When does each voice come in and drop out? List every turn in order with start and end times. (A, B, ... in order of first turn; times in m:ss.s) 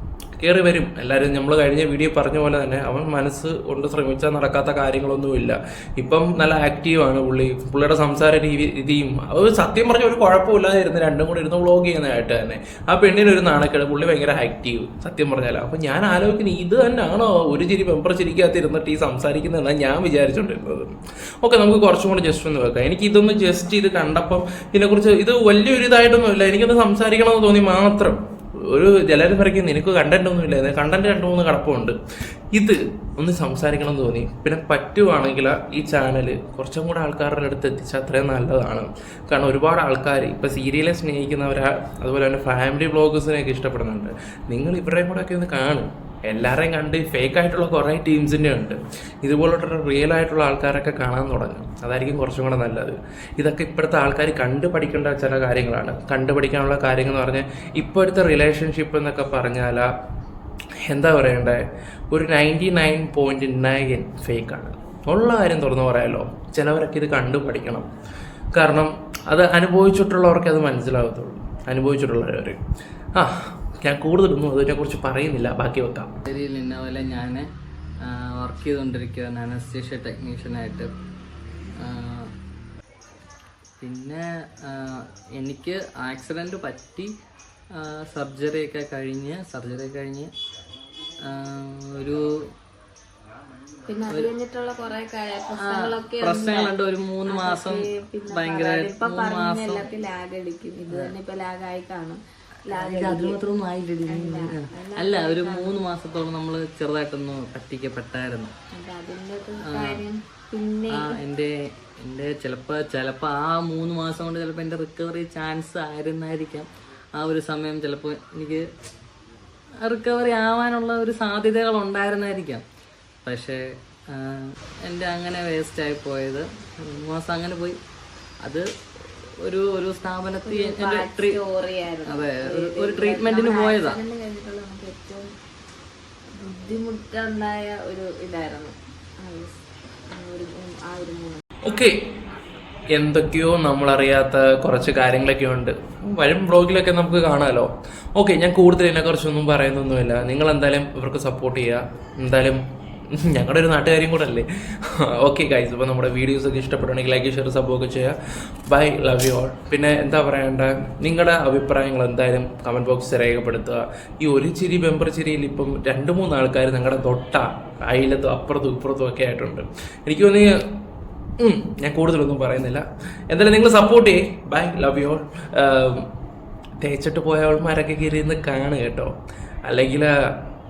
0:00.4-0:32.0 A
0:32.5-0:59.9 A
1:00.9-1:07.9 A
1:08.5-1:12.6 A
1:13.2-1:16.1 A
1:16.2-1:17.5 B
1:18.0-1:20.9 B
1:21.8-1:22.3 B
1:23.8-1:27.1 B
1:27.7-1:30.3 B
1:31.2-1:32.2 B
1:33.9-1:36.7 C
1:35.6-1:39.9 B
1:37.2-1:43.4 C
1:42.7-1:48.5 B
1:44.0-1:45.8 C
1:48.7-1:51.2 C
1:49.6-1:50.0 B
1:50.9-1:58.6 B
1:59.8-2:02.6 B
2:03.2-2:07.8 B
2:09.4-2:11.4 B
2:10.4-2:15.2 C
2:12.1-2:14.0 B
2:16.3-2:19.6 C
2:20.1-2:21.4 C
2:21.6-2:22.0 A
2:22.9-2:32.6 A
2:33.1-2:38.2 A
2:38.7-2:50.5 A
2:51.4-2:56.1 A
2:56.8-2:59.1 A
2:59.6-3:00.1 A